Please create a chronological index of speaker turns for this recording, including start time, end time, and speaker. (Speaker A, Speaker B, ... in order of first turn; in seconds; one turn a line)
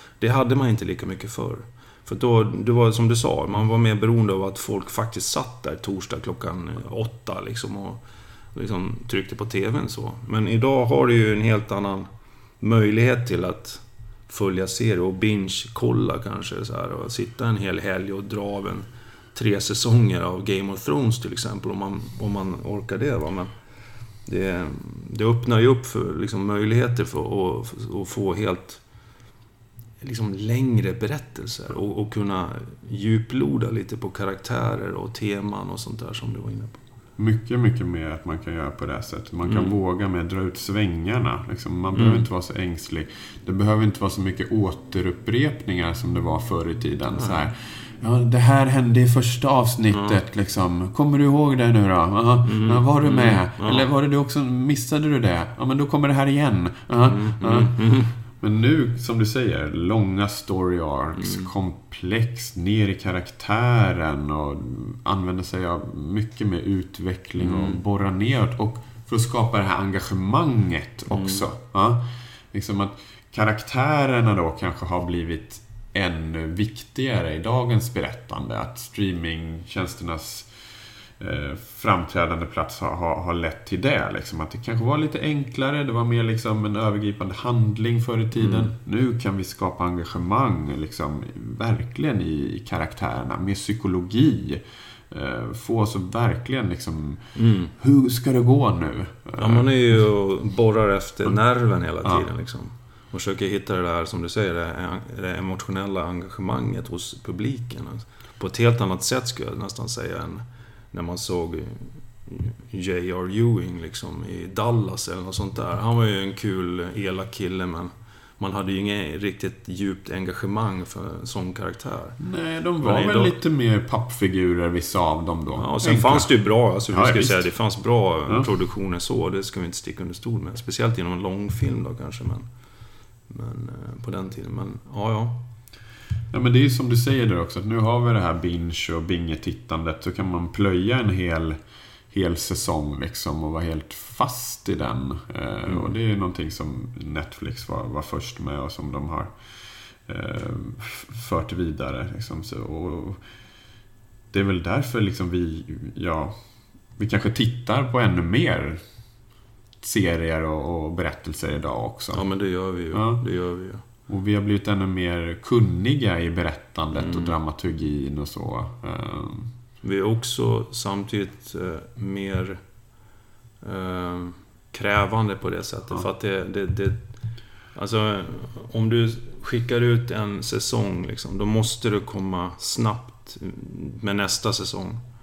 Speaker A: 0.2-8.0
Speaker A: 8.6-12.1
Speaker A: 12.6-23.5
Speaker A: 24.3-28.8
Speaker A: 30.0-36.8
Speaker B: 37.2-57.9
Speaker A: 39.5-39.8
Speaker A: 41.9-42.3
Speaker A: 52.4-53.9
Speaker A: 57.1-58.1
Speaker B: 58.4-80.5
Speaker A: 61.2-61.5
Speaker A: 67.4-67.8
Speaker A: 71.1-71.5
Speaker B: 81.2-99.7
Speaker A: 88.4-88.7
Speaker A: 97.3-97.7
Speaker A: 99.4-122.2
Speaker B: 122.2-126.3
Speaker A: 122.8-123.4
Speaker A: 125.6-132.5
Speaker B: 126.9-127.5
Speaker A: 133.3-135.4
Speaker B: 136.3-141.6
Speaker B: 142.1-149.3
Speaker A: 145.7-145.9
Speaker B: 150.1-153.2
Speaker B: 154.3-156.4
Speaker B: 157.0-158.8
Speaker B: 159.8-162.2
Speaker A: 162.1-163.8
Speaker B: 162.9-163.2
Speaker B: 164.1-169.5
Speaker A: 166.9-167.3
Speaker A: 169.8-172.6
Speaker A: 173.6-177.1
Speaker A: 177.8-185.0